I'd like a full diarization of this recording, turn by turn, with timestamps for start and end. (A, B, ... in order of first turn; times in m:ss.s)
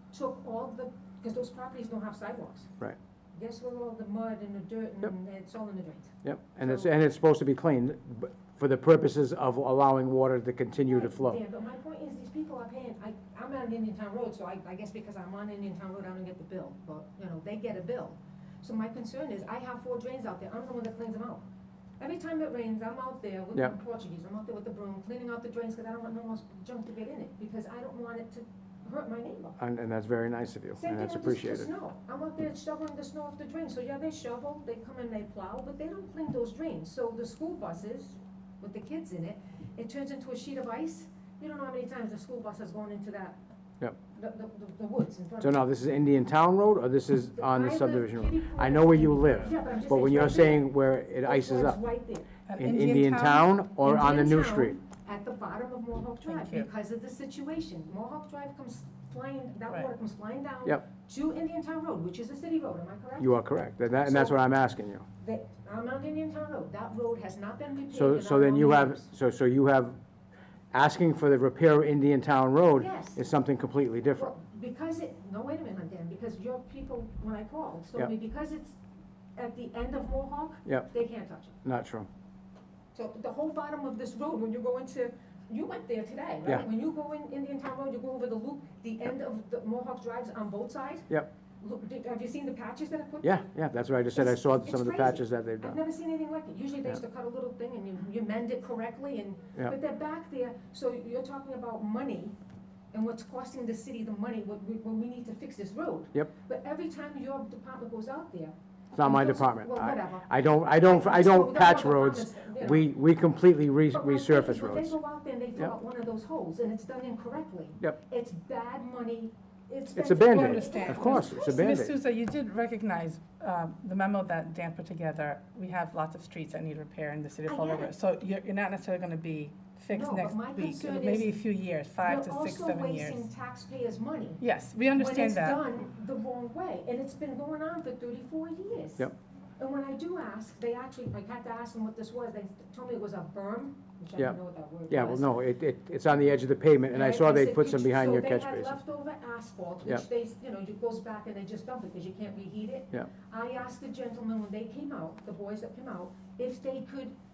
0:00.1-0:02.7 A
0:03.4-0:06.9 A
0:06.2-0:11.4 B
0:10.9-0:21.4 A
0:22.0-0:29.6 A
0:29.6-0:31.7 B
0:30.8-0:43.4 A
0:44.1-0:45.7 A
0:45.4-0:51.8 B
0:47.4-0:52.4 A
0:52.5-0:53.6 C
0:52.6-0:54.8 B
0:53.7-1:03.4 A
0:56.2-0:56.7 C
1:03.2-1:05.0 B
1:04.0-1:04.5 A
1:05.2-1:09.1 A
1:07.9-1:10.0 B
1:10.7-1:14.3 B
1:12.8-1:13.2 A
1:14.2-1:18.8 A
1:19.4-1:21.6 A
1:21.6-1:22.1 B
1:22.9-1:31.1 A
1:31.6-1:33.5 A
1:33.2-1:35.8 B
1:34.1-1:42.4 A
1:42.9-1:52.9 A
1:48.9-1:55.0 B
1:53.9-2:01.7 A
2:00.0-2:02.0 B
2:00.3-2:13.3 C
2:07.5-2:07.9 A
2:09.9-2:11.4 A
2:12.0-2:14.4 A
2:14.4-2:15.6 C
2:14.9-2:25.3 A
2:24.9-2:28.8 B
2:26.9-2:37.1 A